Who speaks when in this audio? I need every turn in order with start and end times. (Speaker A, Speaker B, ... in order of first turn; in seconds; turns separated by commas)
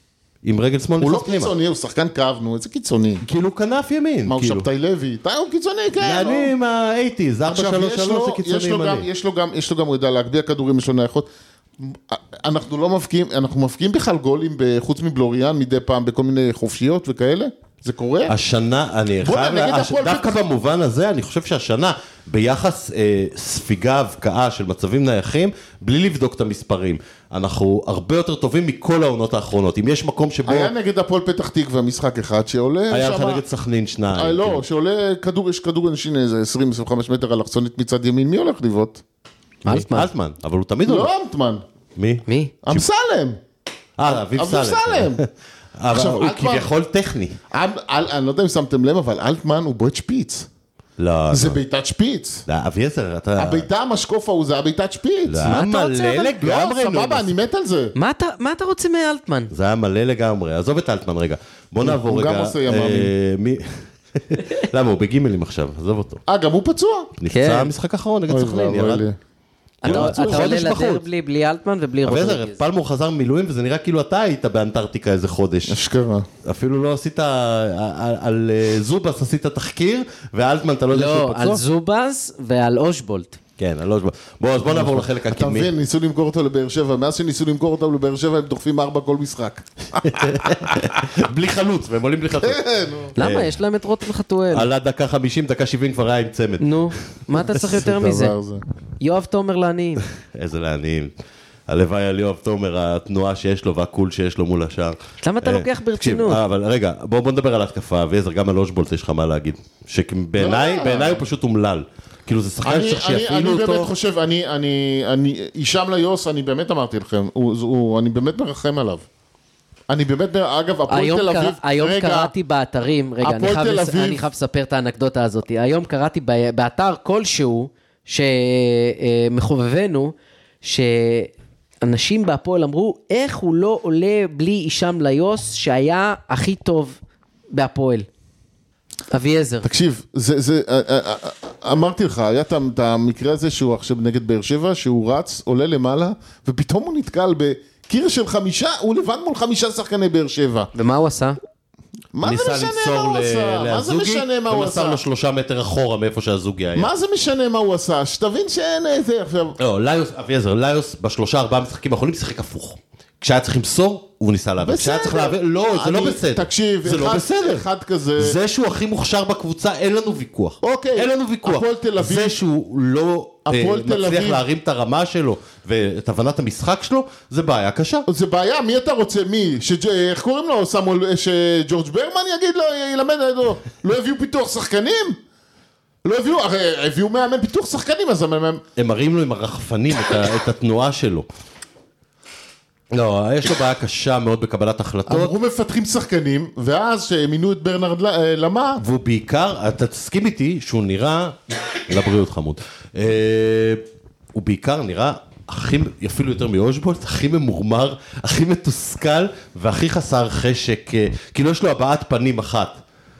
Speaker A: 0.4-1.5, Speaker B: 1.0-3.2, Speaker A: 3.2-4.7, Speaker B: 4.3-6.5, Speaker A: 6.0-9.1, Speaker B: 7.5-11.3, Speaker B: 11.8-18.4, Speaker A: 18.3-30.7, Speaker B: 19.2-20.4, Speaker B: 30.5-33.4, Speaker A: 32.9-34.6, Speaker B: 34.1-39.0, Speaker A: 39.6-41.1, Speaker C: 39.7-40.1, Speaker B: 40.9-41.6, Speaker A: 42.0-42.8, Speaker C: 42.3-42.5, Speaker B: 42.6-43.4, Speaker A: 44.0-45.3, Speaker B: 44.1-45.2, Speaker A: 45.8-47.4, Speaker B: 45.9-46.7, Speaker B: 47.5-50.5, Speaker A: 51.0-51.6, Speaker B: 51.3-52.5, Speaker A: 52.5-53.7, Speaker B: 53.4-55.6, Speaker A: 55.3-57.3, Speaker C: 55.5-56.3, Speaker B: 56.4-57.9, Speaker C: 58.0-59.5, Speaker A: 59.5-66.2, Speaker B: 61.8-63.1, Speaker B: 66.3-67.1, Speaker A: 67.2-69.0, Speaker C: 67.3-67.7, Speaker B: 68.3-69.2, Speaker C: 69.8-72.6, Speaker A: 69.8-71.0, Speaker B: 69.8-70.4, Speaker A: 72.0-75.8, Speaker B: 75.7-76.3, Speaker A: 76.5-81.6, Speaker C: 80.9-83.4, Speaker A: 83.6-85.7, Speaker B: 84.7-91.0, Speaker A: 90.0-93.6, Speaker B: 92.4-93.2, Speaker C: 93.2-94.7, Speaker A: 94.5-96.9, Speaker C: 96.6-98.3, Speaker B: 97.7-98.6, Speaker C: 99.0-100.0, Speaker A: 100.2-101.1, Speaker A: 101.7-113.9, Speaker C: 105.2-106.4, Speaker B: 110.4-111.3, Speaker B: 112.6-119.1, Speaker B: 119.9-122.3, Speaker C: 120.9-137.0, Speaker B: 123.2-124.2, Speaker C: 137.5-138.1, Speaker C: 139.1-139.7, Speaker B: 139.6-150.7, Speaker C: 150.7-151.4, Speaker B: 152.1-155.0, Speaker A: 152.2-156.9, Speaker B: 156.8-159.6, Speaker A: 159.6-167.7, Speaker B: 164.6-168.4, Speaker A: 168.2-178.1, Speaker B: 170.6-172.4, Speaker B: 173.5-174.4, Speaker B: 178.1-185.2, Speaker B: 186.0-188.6, Speaker A: 188.8-191.3, Speaker A: 192.9-195.3, Speaker B: 195.1-198.8, Speaker A: 198.8-203.8, Speaker A: 204.3-212.8